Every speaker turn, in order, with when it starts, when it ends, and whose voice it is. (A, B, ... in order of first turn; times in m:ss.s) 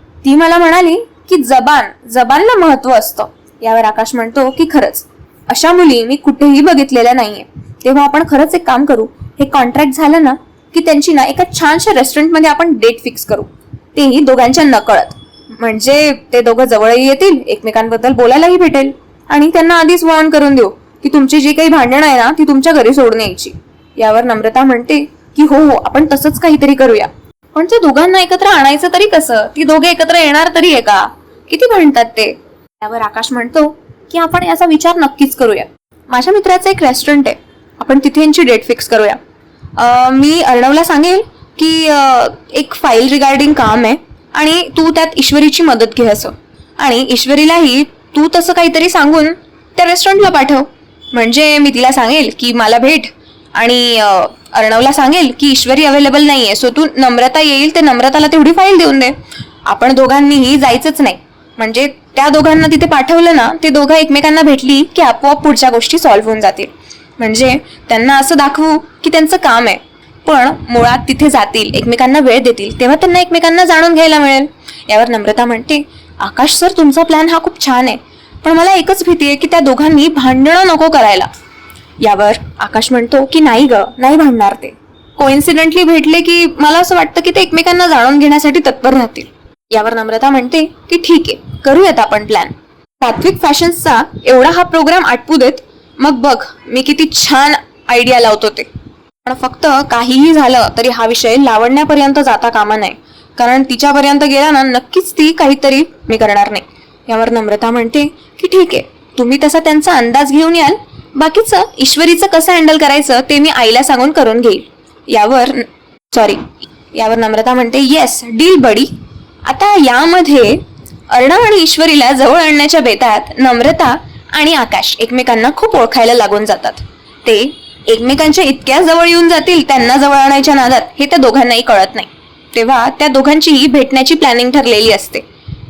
0:00.2-0:39.2 A
0:39.8-1:21.3 A
1:22.0-1:38.7 A
1:39.2-1:58.9 A
1:59.5-2:15.2 A